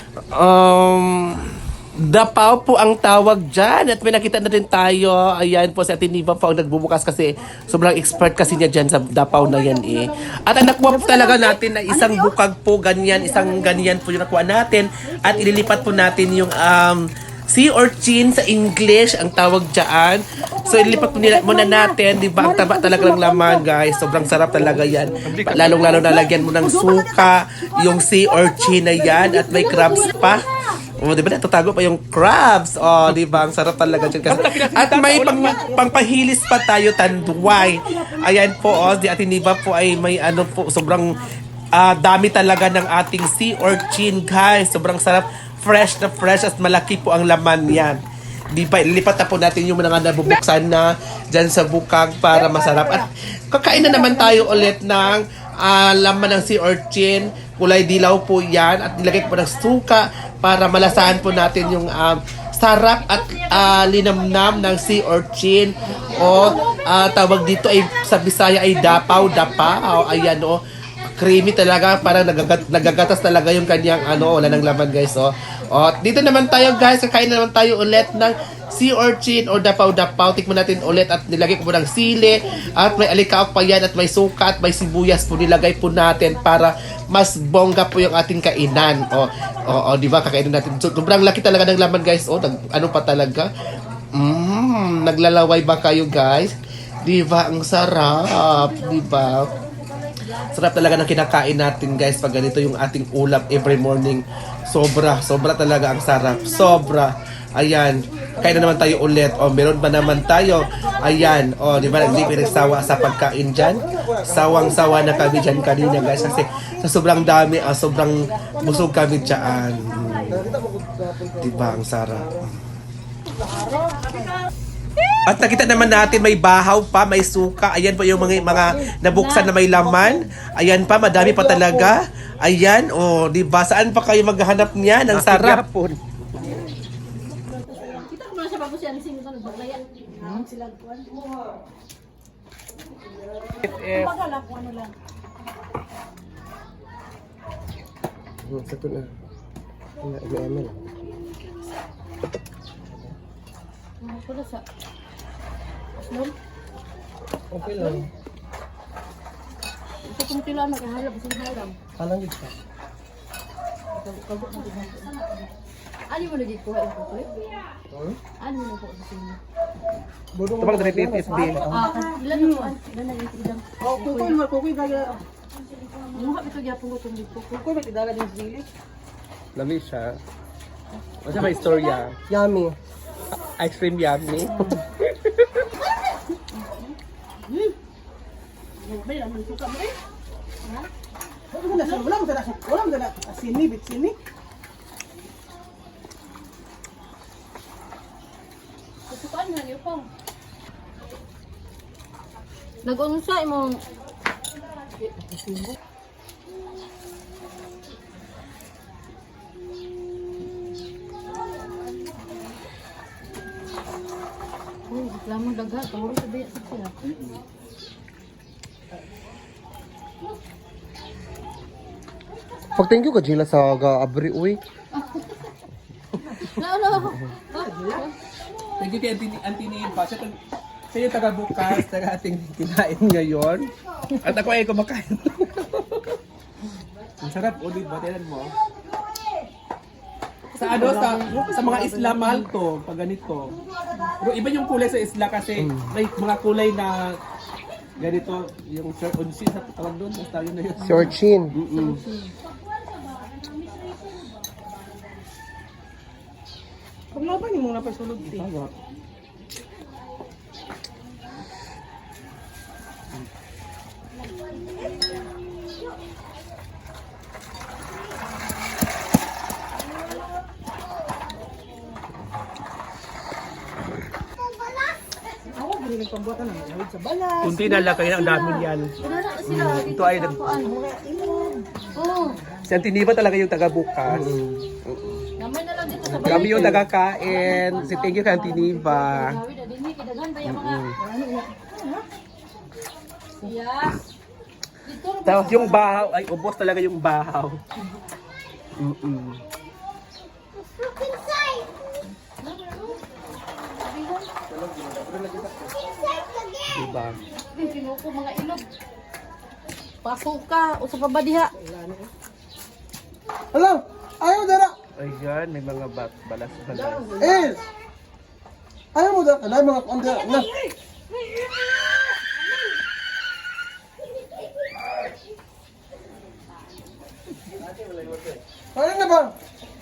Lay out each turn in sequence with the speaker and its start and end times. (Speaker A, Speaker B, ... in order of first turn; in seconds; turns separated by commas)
Speaker A: 0.3-93.5, Speaker B: 9.4-10.1, Speaker B: 10.8-12.3, Speaker B: 13.2-13.6, Speaker B: 15.1-16.1, Speaker B: 20.6-23.6, Speaker B: 24.2-27.3, Speaker C: 24.5-26.1, Speaker B: 28.3-30.4, Speaker D: 29.2-30.4, Speaker C: 34.2-35.8, Speaker B: 35.3-35.9, Speaker D: 37.4-37.7, Speaker D: 38.6-38.8, Speaker D: 61.0-61.2, Speaker D: 66.1-66.8, Speaker A: 94.1-99.5, Speaker D: 98.5-100.8, Speaker A: 100.5-120.4, Speaker D: 106.3-106.7, Speaker D: 108.2-108.8, Speaker D: 110.0-111.4, Speaker E: 111.7-112.9, Speaker E: 113.6-114.6, Speaker B: 114.5-117.4, Speaker D: 118.5-120.5, Speaker B: 118.5-119.5, Speaker E: 120.2-122.4, Speaker A: 121.4-122.4, Speaker B: 123.4-124.3, Speaker D: 123.5-124.3, Speaker A: 125.3-135.6, Speaker C: 125.5-125.9, Speaker D: 128.9-129.5, Speaker E: 131.2-131.8, Speaker C: 135.1-136.0, Speaker D: 137.6-141.3, Speaker C: 143.6-144.1, Speaker D: 143.9-144.9, Speaker E: 148.4-149.1, Speaker E: 150.0-150.9, Speaker D: 154.0-154.6, Speaker D: 156.0-156.3, Speaker E: 157.5-158.1, Speaker D: 157.6-158.0, Speaker D: 160.0-161.8, Speaker E: 162.0-162.5, Speaker D: 163.9-165.5, Speaker D: 166.1-167.4, Speaker E: 167.9-168.2, Speaker D: 168.4-169.4, Speaker E: 170.3-171.5, Speaker C: 170.6-171.7, Speaker B: 171.4-172.7, Speaker D: 171.4-174.4, Speaker B: 173.8-175.2, Speaker D: 176.0-177.6, Speaker B: 177.4-178.7, Speaker C: 179.5-180.2, Speaker C: 181.2-182.1, Speaker D: 181.3-182.0, Speaker E: 182.3-182.8, Speaker C: 183.6-185.5, Speaker D: 184.5-184.8, Speaker D: 186.5-186.9, Speaker B: 188.8-189.9, Speaker B: 191.5-194.2, Speaker D: 191.7-192.1, Speaker D: 199.1-200.1, Speaker D: 202.8-203.8, Speaker D: 214.9-217.1, Speaker E: 222.8-224.6, Speaker D: 224.9-225.2, Speaker D: 226.3-228.1, Speaker E: 227.0-227.2, Speaker B: 227.6-228.1, Speaker C: 228.8-230.4, Speaker C: 230.9-236.2, Speaker C: 237.2-238.6, Speaker C: 240.6-243.6, Speaker B: 240.6-242.5, Speaker C: 244.2-247.2, Speaker E: 245.6-245.9, Speaker C: 248.0-252.0, Speaker E: 250.8-251.6, Speaker D: 251.8-252.3, Speaker D: 253.2-254.1, Speaker B: 257.1-258.5, Speaker C: 258.2-258.7, Speaker B: 275.5-277.7, Speaker C: 277.4-278.9, Speaker D: 277.7-280.7, Speaker C: 279.5-280.4, Speaker B: 280.5-281.7, Speaker D: 281.9-282.4, Speaker C: 282.6-284.4, Speaker E: 284.1-285.1, Speaker D: 285.4-291.4, Speaker E: 286.1-286.7, Speaker C: 286.1-289.4, Speaker D: 293.4-294.0, Speaker D: 294.9-295.9, Speaker C: 295.2-297.6, Speaker C: 298.8-299.4, Speaker D: 302.4-303.0, Speaker D: 303.7-304.3, Speaker E: 304.8-305.5, Speaker C: 306.7-307.2, Speaker D: 307.5-308.7, Speaker D: 310.0-311.5, Speaker B: 311.6-312.1, Speaker E: 313.5-314.8, Speaker C: 315.0-317.2, Speaker B: 316.7-317.6, Speaker E: 317.2-317.6, Speaker E: 318.9-320.5, Speaker D: 320.0-320.8, Speaker E: 328.7-329.3